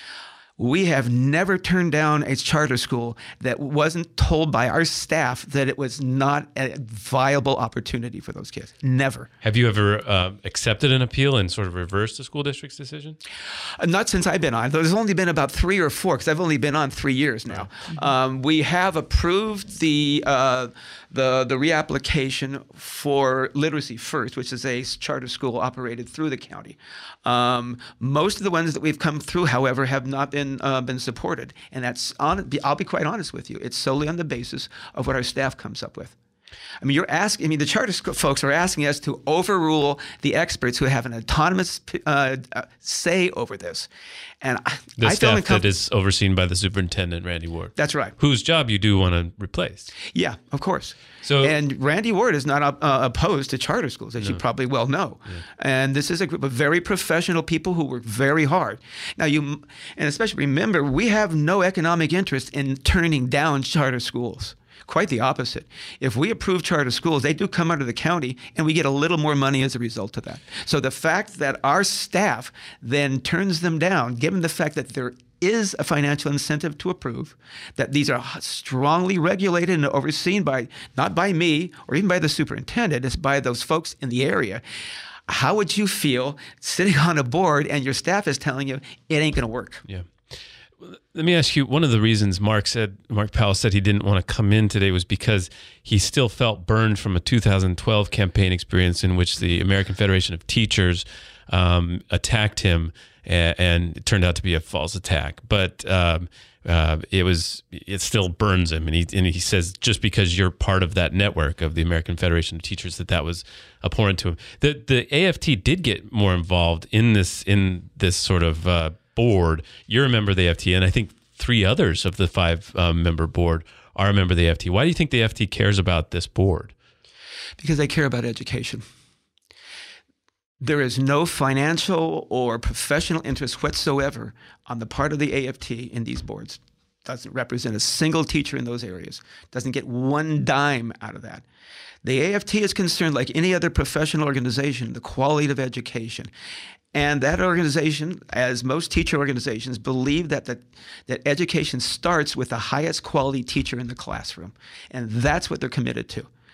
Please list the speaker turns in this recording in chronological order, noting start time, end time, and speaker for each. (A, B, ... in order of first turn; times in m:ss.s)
0:00.6-0:09.3 A
0:09.4-0:13.2 B
0:13.8-0:36.1 A
0:36.8-0:43.9 A
0:44.4-0:45.6 A
0:45.0-0:49.9 B
0:47.8-0:48.1 A
0:50.1-1:24.6 A
0:51.2-0:51.5 B
1:25.3-1:29.8 A
1:30.8-2:06.7 B
2:07.6-2:08.8 A
2:10.6-2:21.4 A
2:22.0-2:26.3 A
2:26.9-2:36.3 A